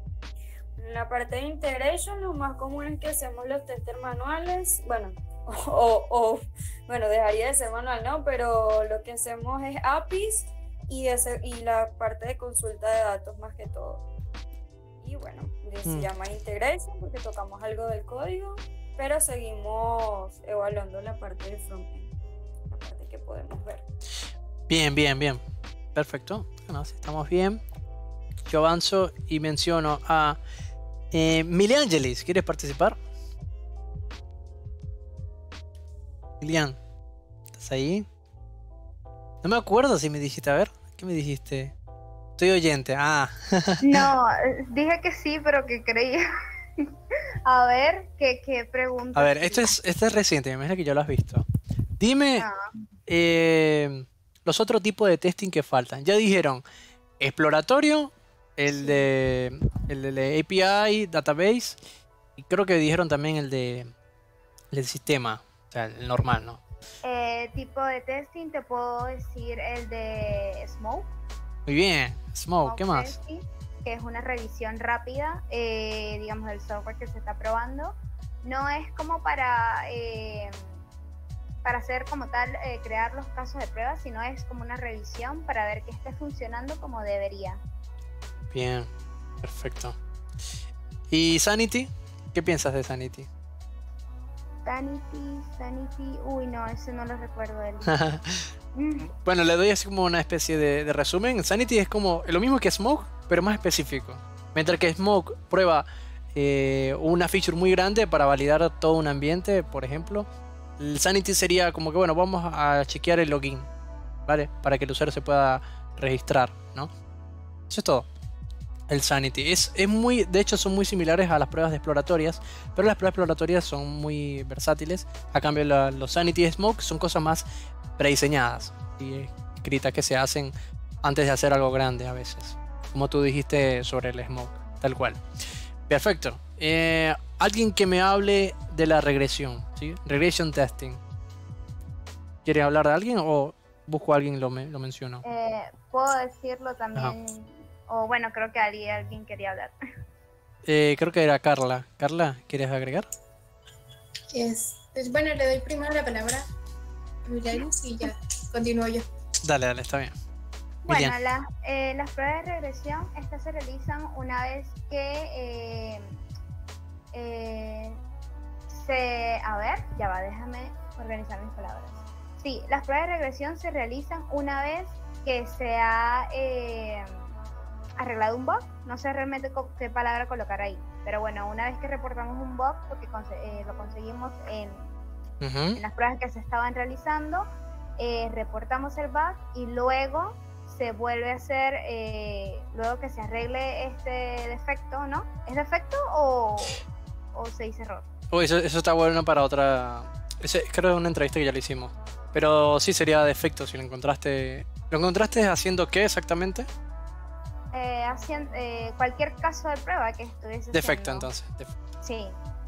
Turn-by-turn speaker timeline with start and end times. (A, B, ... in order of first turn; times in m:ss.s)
0:00.8-0:14.0 A
0:15.0-0:22.1 A
0:15.8-0:16.1 B
0:22.7-0:23.8 A
0:24.7-0:25.4 B
0:25.9-0:27.6 B
0:28.5-0:30.4 B
0:31.1-0:33.0 B
0:36.4-0:36.8 B
0:37.6-0:38.0 B
0:39.4-0:41.7 B
0:42.4-0:44.1 B
0:43.8-0:46.2 C
0:47.4-0:49.7 C
0:49.1-0:51.4 B
0:52.0-0:52.4 B
0:52.4-0:52.7 C
0:53.1-0:56.6 B
0:57.2-1:01.8 B
0:58.7-0:59.0 C
1:02.4-1:03.9 B
1:04.7-1:06.6 B
1:07.0-1:11.1 C
1:11.7-1:13.2 B
1:12.6-1:20.6 C
1:21.6-1:27.6 C
1:28.5-1:28.9 B
1:29.4-1:30.0 B
1:31.1-1:33.3 B
1:34.6-1:38.0 C
1:37.8-1:38.4 B
1:38.7-1:39.1 C
1:39.0-1:50.3 B
1:50.8-1:53.7 B
1:54.2-1:56.9 B
1:57.7-1:58.1 B
1:58.9-2:07.4 B
2:08.0-2:15.2 B
2:15.9-2:21.0 B
2:22.4-2:25.2 B
2:25.2-2:29.7 C
2:30.6-2:33.1 B
2:34.3-2:36.4 D
2:37.2-2:39.0 D
2:39.4-2:40.1 B
2:40.9-2:46.1 C
2:40.9-2:41.1 B
2:47.1-2:48.0 C
2:48.7-2:57.2 C
2:58.0-3:04.9 C
3:05.4-3:05.8 B
3:05.7-3:16.8 C
3:17.3-3:18.0 C
3:18.3-3:26.7 B
3:27.7-3:31.3 C
3:30.7-3:31.7 B
3:32.0-3:32.4 C